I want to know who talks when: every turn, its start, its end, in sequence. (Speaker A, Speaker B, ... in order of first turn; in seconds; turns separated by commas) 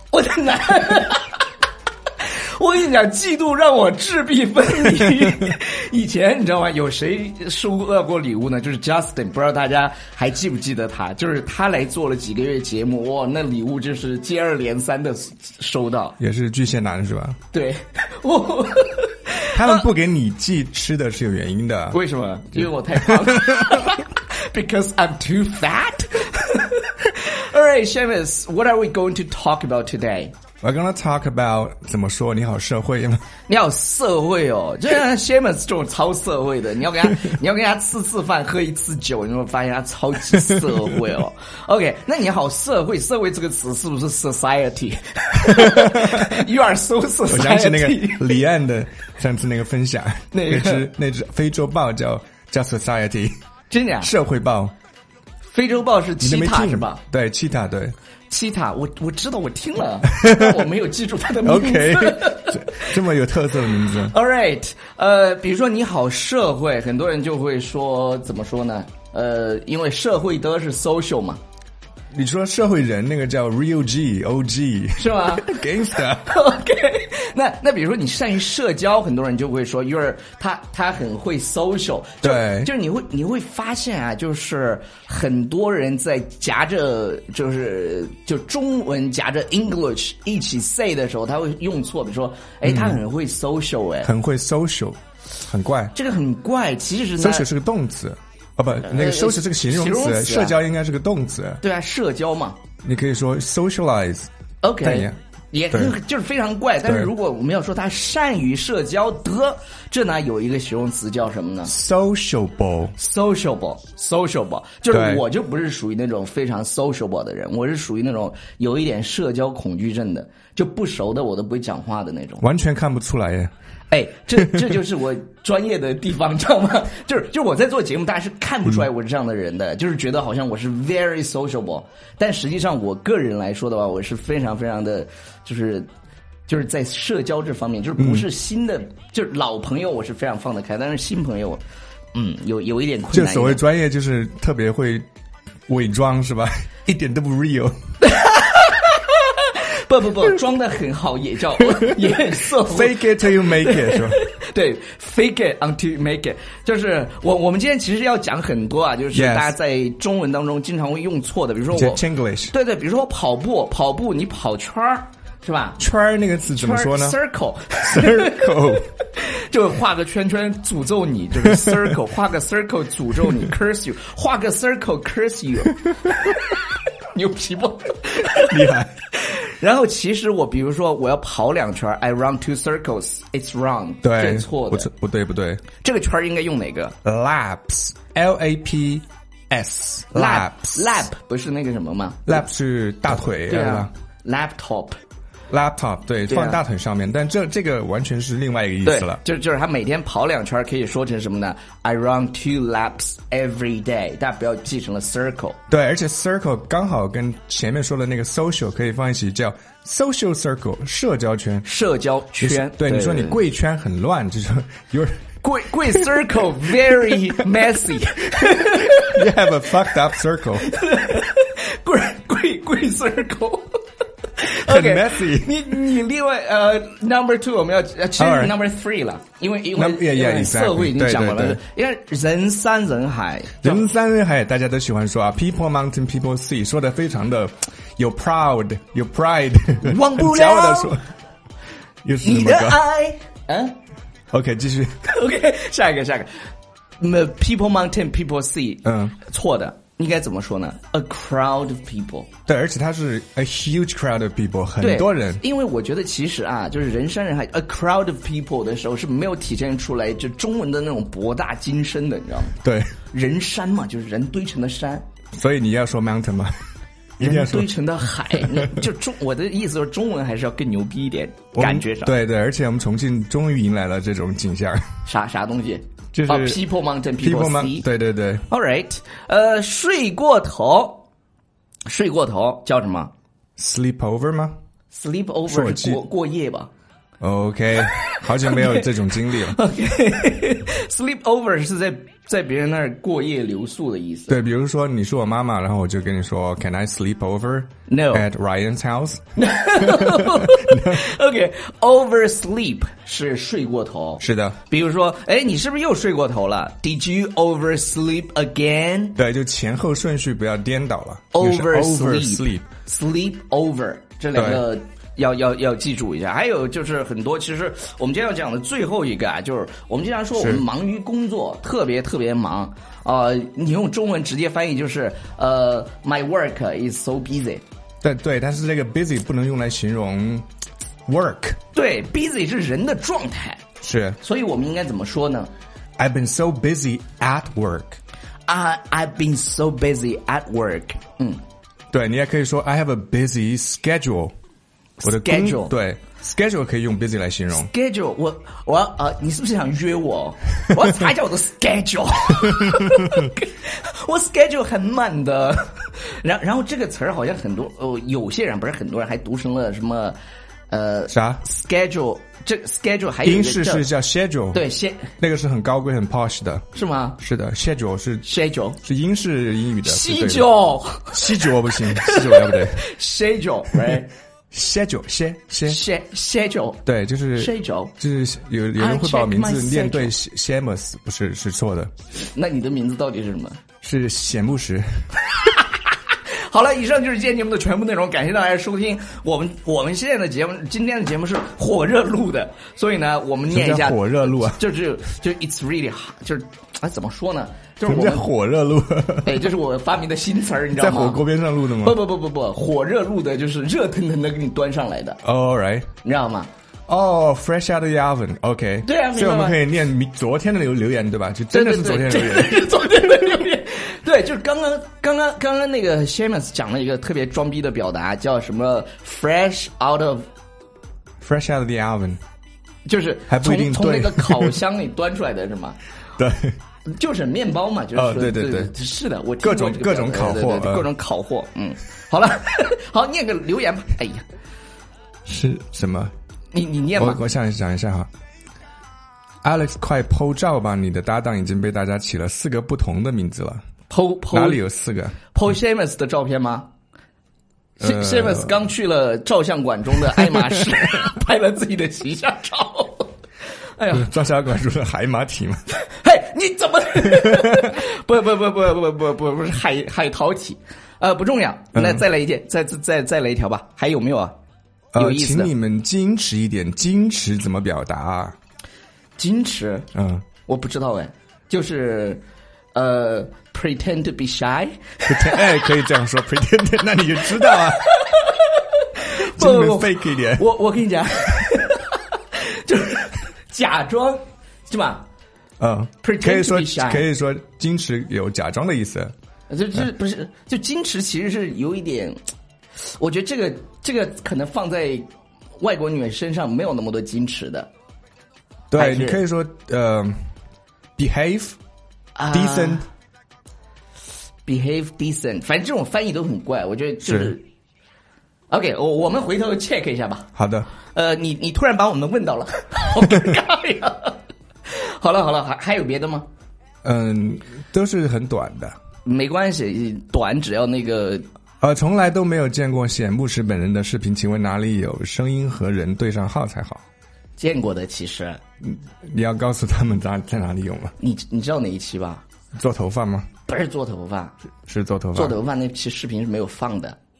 Speaker A: 0.1-1.4, Speaker A: 2.2-16.2, Speaker B: 16.2-17.4, Speaker A: 17.5-19.8, Speaker B: 19.5-22.0, Speaker A: 21.9-30.3, Speaker B: 22.6-23.9, Speaker B: 30.6-33.2, Speaker A: 33.5-48.4, Speaker B: 45.4-46.3, Speaker B: 47.3-53.3, Speaker A: 50.3-50.9, Speaker A: 53.7-54.1, Speaker B: 54.0-54.7, Speaker A: 55.5-57.0, Speaker B: 56.2-57.9, Speaker A: 58.3-63.0, Speaker B: 60.1-60.6, Speaker B: 61.4-64.2, Speaker A: 63.9-71.4, Speaker B: 72.1-76.3, Speaker A: 75.0-75.6, Speaker A: 76.1-94.1, Speaker B: 82.2-82.7, Speaker B: 92.6-93.0, Speaker B: 94.0-95.9, Speaker A: 95.9-97.5, Speaker B: 97.2-101.6, Speaker A: 98.9-100.6, Speaker A: 101.6-102.6, Speaker B: 102.8-104.3, Speaker A: 104.6-111.7, Speaker B: 104.8-105.2, Speaker B: 106.8-107.1, Speaker B: 111.7-112.9, Speaker A: 113.0-122.4, Speaker B: 114.9-115.2, Speaker B: 122.4-123.5, Speaker A: 123.9-135.9, Speaker A: 136.5-141.6, Speaker B: 138.0-138.2, Speaker A: 142.1-143.6, Speaker B: 143.1-145.1, Speaker B: 145.7-147.7, Speaker A: 148.0-165.8, Speaker B: 151.7-152.0, Speaker B: 152.6-154.2, Speaker B: 159.1-159.5, Speaker B: 161.7-162.5, Speaker B: 165.8-167.2, Speaker A: 166.5-184.9, Speaker B: 167.8-168.9, Speaker B: 171.4-171.8, Speaker B: 178.4-178.9, Speaker B: 184.0-185.6, Speaker A: 185.8-186.9, Speaker B: 187.0-191.1, Speaker A: 190.1-192.4, Speaker B: 192.2-193.9, Speaker A: 193.2-194.9, Speaker B: 195.5-199.2, Speaker A: 196.3-196.6, Speaker A: 198.8-205.6, Speaker B: 205.7-211.7, Speaker A: 211.6-213.4, Speaker B: 212.4-215.3, Speaker A: 215.4-219.2, Speaker B: 215.9-216.1, Speaker B: 218.9-220.7, Speaker A: 220.6-223.7, Speaker A: 224.3-233.8, Speaker B: 224.7-225.6, Speaker B: 228.2-228.5, Speaker B: 229.7-231.6, Speaker B: 233.6-241.1, Speaker A: 239.8-241.0, Speaker B: 242.0-242.8, Speaker A: 242.2-243.8, Speaker B: 244.3-245.0, Speaker A: 245.0-246.3, Speaker A: 247.0-252.3, Speaker B: 248.8-249.1, Speaker B: 252.5-255.4, Speaker A: 254.8-262.6, Speaker B: 262.6-262.9, Speaker A: 263.1-265.0, Speaker B: 265.4-266.5, Speaker B: 267.2-267.7, Speaker A: 267.2-272.1, Speaker B: 268.3-268.8, Speaker B: 271.5-274.8, Speaker A: 275.1-277.9, Speaker B: 276.1-276.6, Speaker B: 277.2-278.4, Speaker A: 278.5-281.0, Speaker A: 281.9-283.1, Speaker B: 283.6-284.6, Speaker A: 284.9-286.7, Speaker B: 285.5-286.0, Speaker B: 287.2-289.6, Speaker A: 287.9-294.4, Speaker B: 294.3-299.2, Speaker A: 297.9-298.3, Speaker A: 299.4-309.2, Speaker B: 299.8-301.0, Speaker B: 304.2-304.6, Speaker B: 309.2-312.7, Speaker A: 311.3-327.6, Speaker B: 314.3-314.6, Speaker B: 320.4-320.6, Speaker B: 328.0-330.5, Speaker B: 331.1-331.6, Speaker A: 331.7-333.6, Speaker B: 333.8-334.2, Speaker A: 334.2-335.5, Speaker B: 336.0-338.0, Speaker A: 338.5-341.4, Speaker B: 341.9-344.3, Speaker A: 345.0-345.8, Speaker B: 345.0-347.7, Speaker A: 347.5-360.2, Speaker A: 360.7-363.9, Speaker B: 361.1-361.4, Speaker B: 363.2-364.6, Speaker A: 364.5-365.1, Speaker B: 365.2-366.6, Speaker A: 366.7-367.2, Speaker B: 367.2-368.3, Speaker A: 368.2-368.8, Speaker B: 368.8-370.5, Speaker A: 369.8-374.1, Speaker B: 371.1-372.9, Speaker B: 374.5-375.8, Speaker A: 375.7-376.8, Speaker B: 376.9-381.9, Speaker A: 377.4-377.9, Speaker A: 378.8-380.1, Speaker A: 382.1-383.6, Speaker B: 383.8-384.8, Speaker A: 385.2-398.3, Speaker B: 393.5-394.6, Speaker B: 397.8-399.4, Speaker A: 399.2-405.2, Speaker B: 400.8-402.0, Speaker B: 405.2-405.9, Speaker A: 406.0-406.5, Speaker B: 406.9-412.7, Speaker A: 408.8-409.6, Speaker A: 411.5-420.3, Speaker B: 421.2-422.2, Speaker A: 422.9-425.8, Speaker B: 423.3-424.6, Speaker B: 426.2-426.6, Speaker A: 426.9-434.2, Speaker B: 427.9-428.7, Speaker B: 429.4-430.9, Speaker B: 435.2-436.1, Speaker A: 436.5-437.2, Speaker B: 437.0-438.1, Speaker B: 439.4-443.6, Speaker A: 443.9-444.6, Speaker B: 444.3-445.2, Speaker A: 445.3-446.7, Speaker A: 447.8-453.1, Speaker B: 447.8-448.6, Speaker B: 450.3-450.6, Speaker A: 453.8-454.1, Speaker B: 453.9-455.6, Speaker A: 455.8-464.3, Speaker B: 457.1-457.7, Speaker B: 461.7-462.0, Speaker B: 464.9-468.4, Speaker A: 464.9-465.5, Speaker A: 469.2-469.9, Speaker B: 469.9-470.3, Speaker A: 470.4-472.2, Speaker A: 472.7-475.8, Speaker B: 475.1-477.9, Speaker A: 477.2-485.0, Speaker B: 479.3-480.5, Speaker B: 485.6-489.1, Speaker A: 486.0-487.1, Speaker A: 489.5-492.2, Speaker A: 492.8-497.7, Speaker B: 498.7-500.3, Speaker A: 498.7-499.2, Speaker B: 501.0-501.6, Speaker A: 502.1-502.8, Speaker B: 502.3-502.9, Speaker A: 504.4-507.4, Speaker B: 507.0-507.3, Speaker A: 508.5-510.3, Speaker B: 510.4-510.7, Speaker A: 510.9-516.2, Speaker B: 516.8-518.7, Speaker A: 519.0-521.2, Speaker B: 521.6-526.8, Speaker A: 527.4-528.4, Speaker B: 528.6-530.9, Speaker A: 531.0-532.2, Speaker B: 532.6-533.3, Speaker A: 533.5-534.3, Speaker B: 534.6-535.4, Speaker A: 535.1-537.0